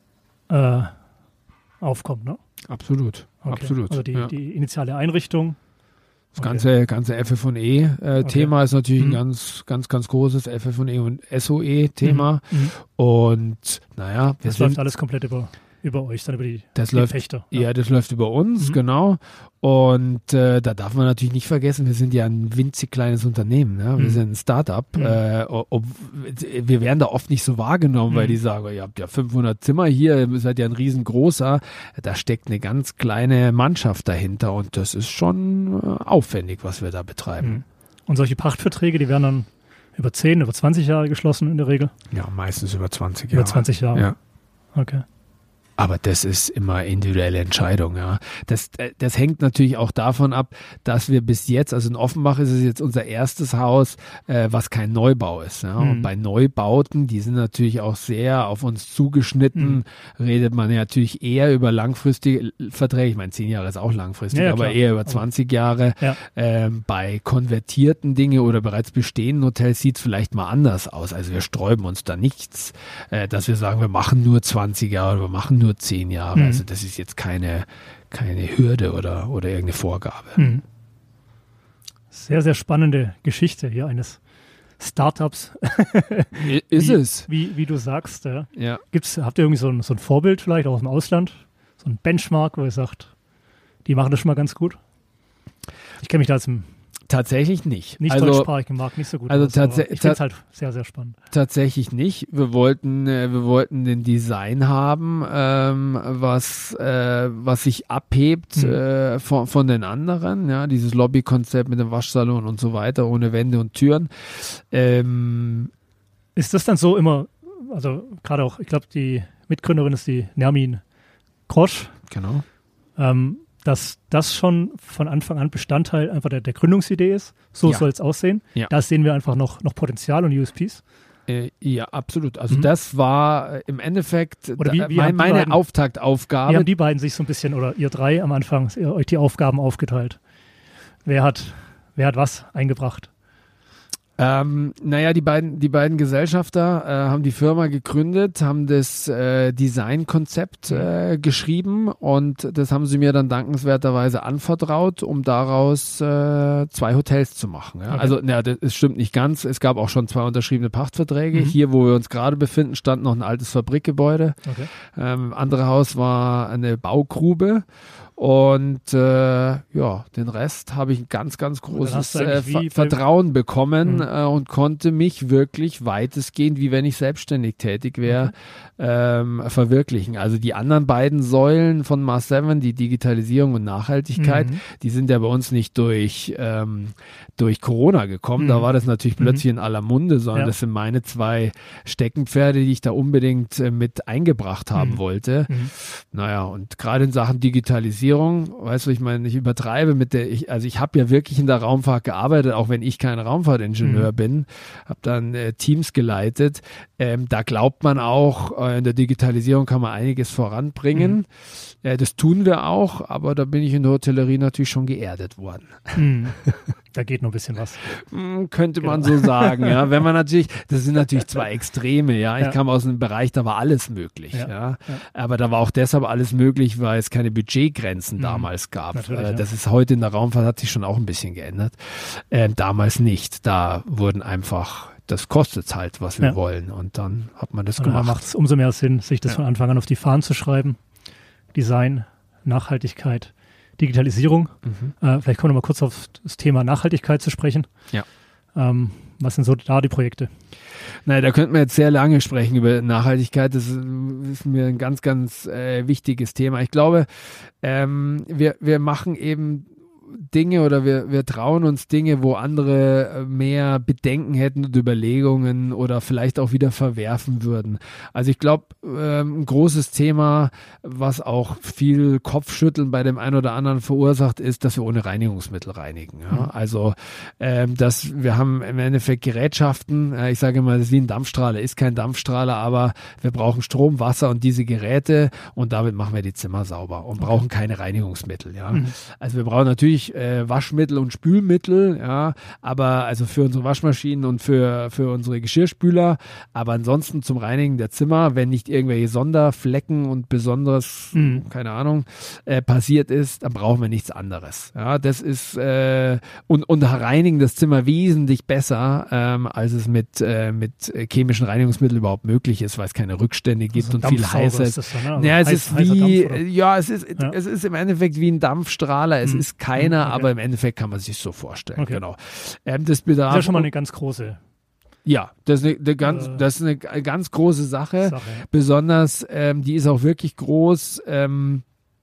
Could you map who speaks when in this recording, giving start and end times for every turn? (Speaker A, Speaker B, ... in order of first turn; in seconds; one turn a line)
Speaker A: 0.5-0.9
Speaker A: 1.8-2.4
Speaker B: 2.7-4.3
Speaker A: 3.5-5.6
Speaker B: 6.3-14.8
Speaker A: 6.4-6.7
Speaker A: 8.2-9.2
Speaker A: 12.0-12.7
Speaker A: 14.4-17.6
Speaker B: 16.8-37.6
Speaker A: 28.1-28.4
Speaker A: 37.4-41.9
Speaker B: 42.1-44.1
Speaker A: 43.3-44.1
Speaker A: 44.7-45.0
Speaker B: 45.8-80.4
Speaker A: 55.8-56.1
Speaker A: 59.5-59.8
Speaker A: 64.3-65.2
Speaker A: 76.3-76.6
Speaker A: 80.4-80.6
Speaker A: 82.1-84.2
Speaker A: 84.8-93.1
Speaker B: 86.4-87.3
Speaker B: 88.6-88.8
Speaker A: 93.8-94.8
Speaker A: 96.0-96.7
Speaker B: 97.1-98.5
Speaker A: 98.0-101.2
Speaker B: 99.3-100.2
Speaker B: 101.3-115.7
Speaker A: 116.4-120.8
Speaker A: 121.5-122.0
Speaker B: 122.1-122.4
Speaker A: 123.0-130.8
Speaker B: 131.3-136.7
Speaker A: 134.6-135.6
Speaker A: 136.5-140.2
Speaker A: 141.1-143.1
Speaker B: 144.2-167.7
Speaker A: 157.9-158.2
Speaker A: 164.4-164.7
Speaker B: 168.2-216.6
Speaker A: 171.7-173.0
Speaker A: 178.1-178.3
Speaker A: 184.2-184.6
Speaker A: 188.4-188.7
Speaker A: 194.8-195.7
Speaker A: 203.8-204.1
Speaker A: 216.0-216.4
Speaker A: 216.9-217.8
Speaker B: 217.8-238.2
Speaker A: 218.8-219.8
Speaker A: 224.3-225.0
Speaker A: 228.2-229.4
Speaker A: 237.8-240.8
Speaker A: 241.5-247.7
Speaker B: 244.7-244.9
Speaker A: 248.6-250.3
Speaker B: 251.1-323.7
Speaker A: 287.2-287.4
Speaker A: 301.1-301.4
Speaker A: 313.7-316.4
Speaker A: 319.2-320.3
Speaker A: 321.8-322.0
Speaker A: 323.3-324.4
Speaker B: 325.1-331.6
Speaker A: 326.0-326.4
Speaker A: 328.0-328.5